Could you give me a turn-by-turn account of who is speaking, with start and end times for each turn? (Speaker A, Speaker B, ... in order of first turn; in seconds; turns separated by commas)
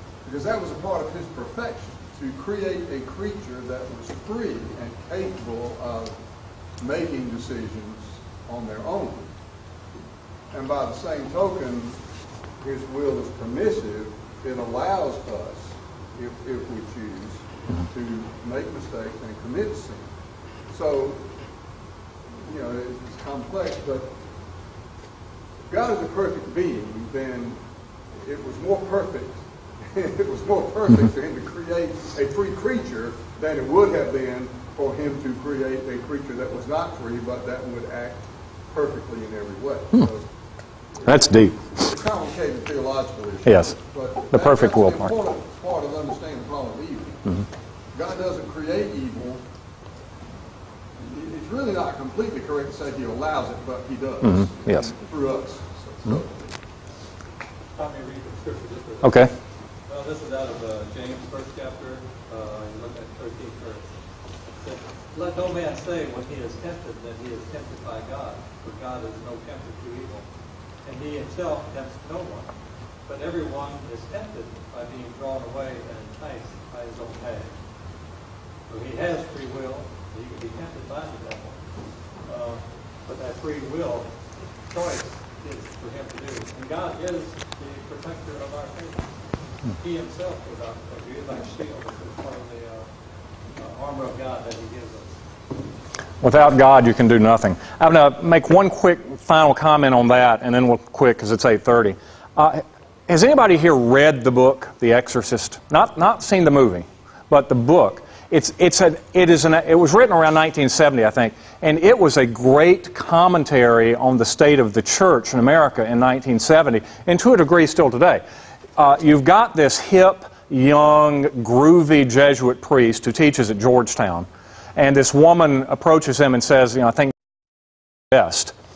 Speaker A: 0.2-6.2, Speaker A: 6.8-9.3, Speaker A: 10.5-12.0, Speaker A: 12.6-20.1, Speaker A: 20.7-21.3, Speaker A: 22.4-24.1, Speaker A: 25.7-27.6, Speaker A: 28.1-29.4, Speaker A: 29.9-40.2, Speaker A: 41.0-47.2, Speaker B: 41.0-41.8, Speaker B: 43.4-43.8, Speaker B: 44.3-45.1, Speaker A: 47.9-49.4, Speaker A: 51.0-56.5, Speaker B: 54.2-54.9, Speaker C: 57.8-59.3, Speaker B: 59.0-59.3, Speaker C: 59.9-63.9, Speaker C: 64.6-70.3, Speaker C: 70.8-72.5, Speaker C: 73.1-77.5, Speaker C: 78.7-81.5, Speaker C: 82.2-84.1, Speaker C: 84.7-89.1, Speaker C: 89.7-92.9, Speaker C: 93.5-95.2, Speaker B: 96.2-118.2, Speaker B: 118.8-127.1, Speaker B: 128.1-128.5